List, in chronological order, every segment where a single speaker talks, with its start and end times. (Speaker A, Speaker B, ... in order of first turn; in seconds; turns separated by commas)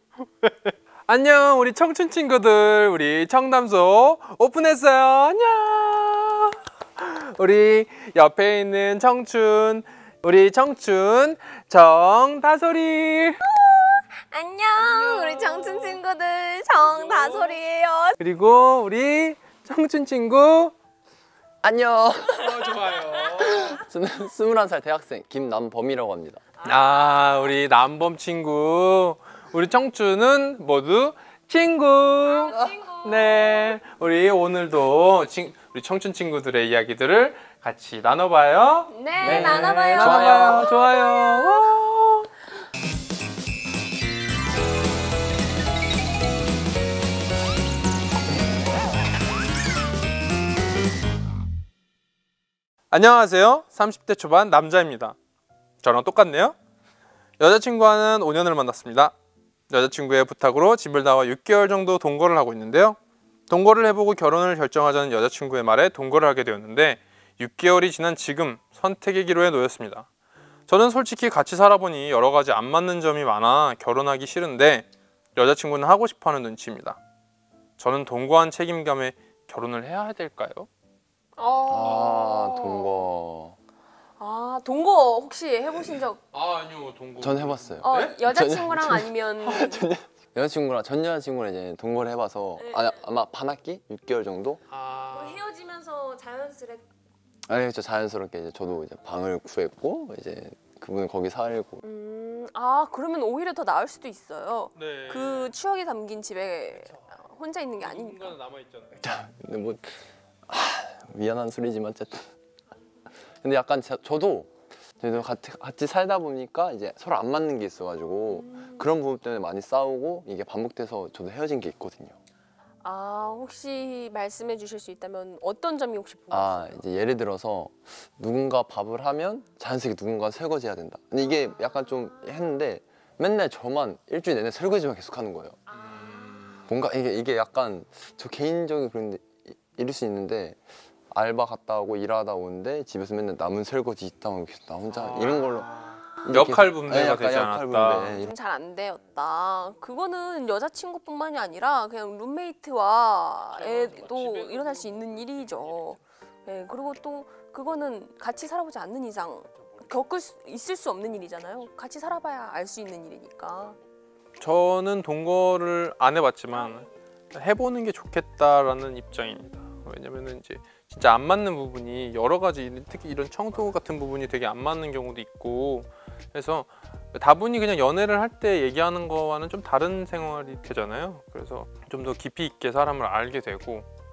Speaker A: 0.2-13.4, Speaker B: 13.4-18.2, Speaker A: 14.7-16.0, Speaker A: 16.7-17.6, Speaker A: 18.2-20.7, Speaker C: 21.6-22.8, Speaker A: 22.3-23.8, Speaker B: 23.0-23.8, Speaker C: 23.3-26.4, Speaker B: 26.6-27.3, Speaker A: 26.6-42.3, Speaker B: 32.2-33.7, Speaker B: 38.9-40.8, Speaker C: 39.2-40.7, Speaker A: 52.9-55.2, Speaker A: 55.8-56.5, Speaker A: 57.4-59.1, Speaker A: 59.7-63.0, Speaker A: 63.5-70.1, Speaker A: 70.7-77.0, Speaker A: 77.8-80.7, Speaker B: 81.3-83.1, Speaker C: 81.7-83.6, Speaker B: 84.2-86.2, Speaker A: 86.3-88.2, Speaker C: 87.2-94.6, Speaker B: 87.8-89.9, Speaker B: 92.5-93.0, Speaker A: 94.7-95.4, Speaker B: 95.1-96.9, Speaker C: 97.5-101.8, Speaker B: 101.8-108.4, Speaker A: 104.7-105.5, Speaker A: 106.7-107.2, Speaker A: 107.8-109.0, Speaker C: 109.0-112.3, Speaker C: 113.3-122.2, Speaker B: 118.2-118.9, Speaker B: 122.8-126.9, Speaker C: 126.3-135.6, Speaker B: 131.2-132.5, Speaker B: 135.7-136.6, Speaker A: 135.7-136.7, Speaker C: 136.6-145.7, Speaker A: 144.9-148.2, Speaker C: 146.2-148.3, Speaker B: 148.1-163.8, Speaker A: 153.4-156.0, Speaker A: 164.4-183.9, Speaker B: 166.5-166.9